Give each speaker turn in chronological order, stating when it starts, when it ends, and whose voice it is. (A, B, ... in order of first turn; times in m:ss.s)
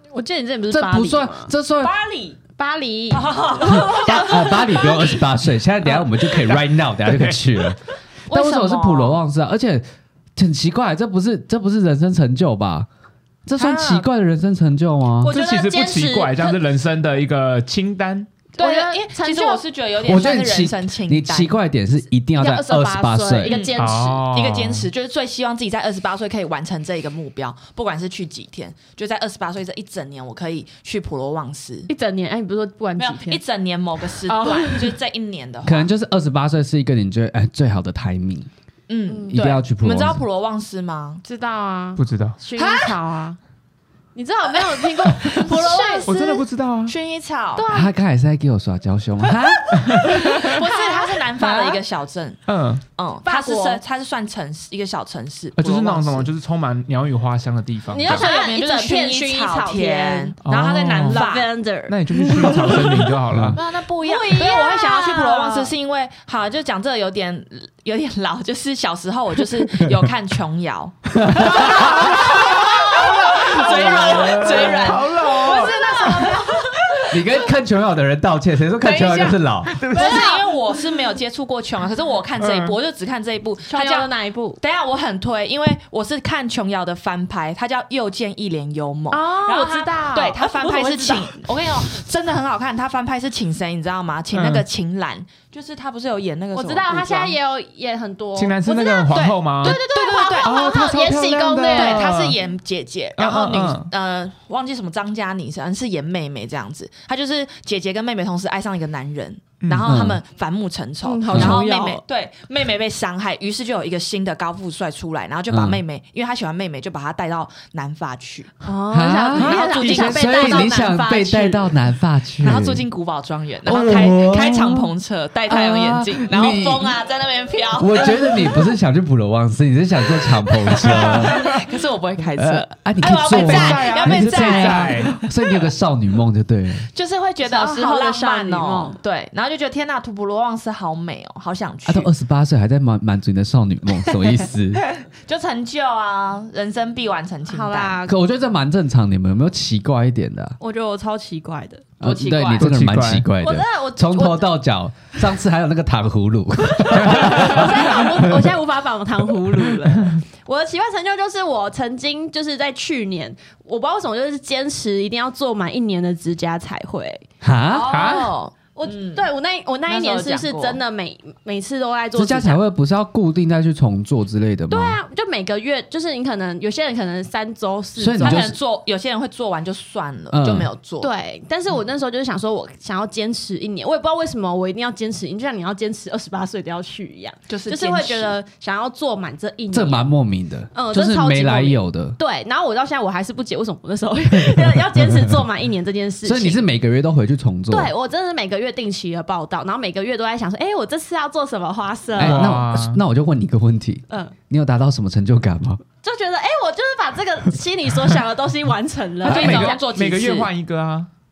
0:00.1-0:01.5 A
0:00.7-0:01.9 B
0:01.8-0:02.4 C
0:02.6-0:04.5 A
0:03.1-0:05.2 C
0:03.6-0:09.8 B
0:06.2-0:07.8 D
0:08.3-0:09.0 C
0:08.3-0:09.2 A
0:10.4-0:12.9 B
0:13.5-0:15.3 B
0:13.6-0:14.0 C
0:15.2-0:16.6 A
0:15.3-0:18.3 D
0:18.6-0:19.6 A
0:18.6-0:21.5 C
0:20.0-0:23.6 B
0:22.4-0:24.2 A
0:23.4-0:31.9 C
0:23.8-0:24.9 D
0:31.9-0:33.4 A
0:33.0-0:35.9 C
0:34.3-0:35.0 A
0:35.7-0:38.5 B
0:38.9-0:41.2 C
0:39.1-0:39.4 A
0:39.3-0:40.2 B
0:41.2-0:43.4 A
0:42.0-0:42.4 D
0:42.6-0:43.0 C
0:44.2-0:46.4 A
0:44.5-0:46.4 C
0:46.0-0:47.0 D
0:46.9-0:47.7 C
0:47.6-0:47.9 A
0:47.7-0:50.2 B
0:49.8-0:50.4 D
0:49.8-0:51.8 A
0:50.4-0:52.4 C
0:52.5-0:52.8 D
0:53.0-0:56.3 C
0:53.2-0:53.8 A
0:55.6-0:58.3 D
0:57.9-1:00.4 A
0:58.0-1:01.5 C
1:00.4-1:01.2 D
1:01.1-1:05.7 A
1:01.9-1:03.6 D
1:03.3-1:03.6 B
1:03.6-1:17.1 C
1:11.2-1:12.1 B
1:11.9-1:16.0 D
1:12.0-1:17.2 A
1:17.1-1:19.8 B
1:18.8-1:37.4 C
1:19.8-1:20.4 D
1:19.9-1:20.5 A
1:22.4-1:22.8 D
1:23.7-1:24.6 A
1:29.1-1:31.4 A
1:34.3-1:34.6 D
1:36.6-1:42.0 A
1:38.4-1:39.8 D
1:39.6-1:40.7 C
1:40.4-1:42.4 D
1:41.7-1:58.6 C
1:43.2-1:43.9 D
1:49.9-1:50.2 B
1:51.0-1:52.0 A
1:51.3-1:51.6 B
1:55.5-1:55.8 B
1:58.6-2:01.7 A
1:58.9-2:02.9 B
1:59.4-2:00.2 D
1:59.4-2:00.7 C
2:02.4-2:08.7 C
2:03.6-2:04.9 B
2:05.5-2:06.9 B
2:07.8-2:11.6 B
2:10.5-2:15.3 C
2:11.1-2:11.6 D
2:12.4-2:16.9 B
2:13.1-2:15.1 D
2:16.9-2:22.1 C
2:17.4-2:19.0 A
2:21.9-2:24.8 B
2:25.1-2:28.0 C
2:27.5-2:28.2 A
2:28.1-2:30.6 B
2:30.6-2:31.8 A
2:32.0-2:38.5 B
2:32.0-2:32.7 C
2:32.6-2:33.3 D
2:33.4-2:34.6 A
2:36.7-2:47.3 A
2:36.9-2:37.7 D
2:47.4-2:47.9 B
2:47.7-2:49.3 C
2:47.9-2:48.3 D
2:48.0-2:48.2 A
2:48.8-2:52.6 A
2:49.9-2:50.8 C
2:52.1-2:55.0 B
2:54.7-2:58.5 A
2:58.0-2:58.6 B
2:58.2-3:01.1 C
3:00.3-3:00.7 B
3:01.0-3:10.1 A
3:07.5-3:08.4 C
3:09.7-3:12.2 B
3:10.7-3:16.6 A
3:14.3-3:15.4 B
3:16.2-3:17.9 B
3:17.7-3:22.5 A
3:22.2-3:25.8 B
3:22.2-3:23.0 D
3:24.1-3:24.4 A
3:26.0-3:29.8 A
3:29.2-3:30.5 C
3:29.2-3:31.1 D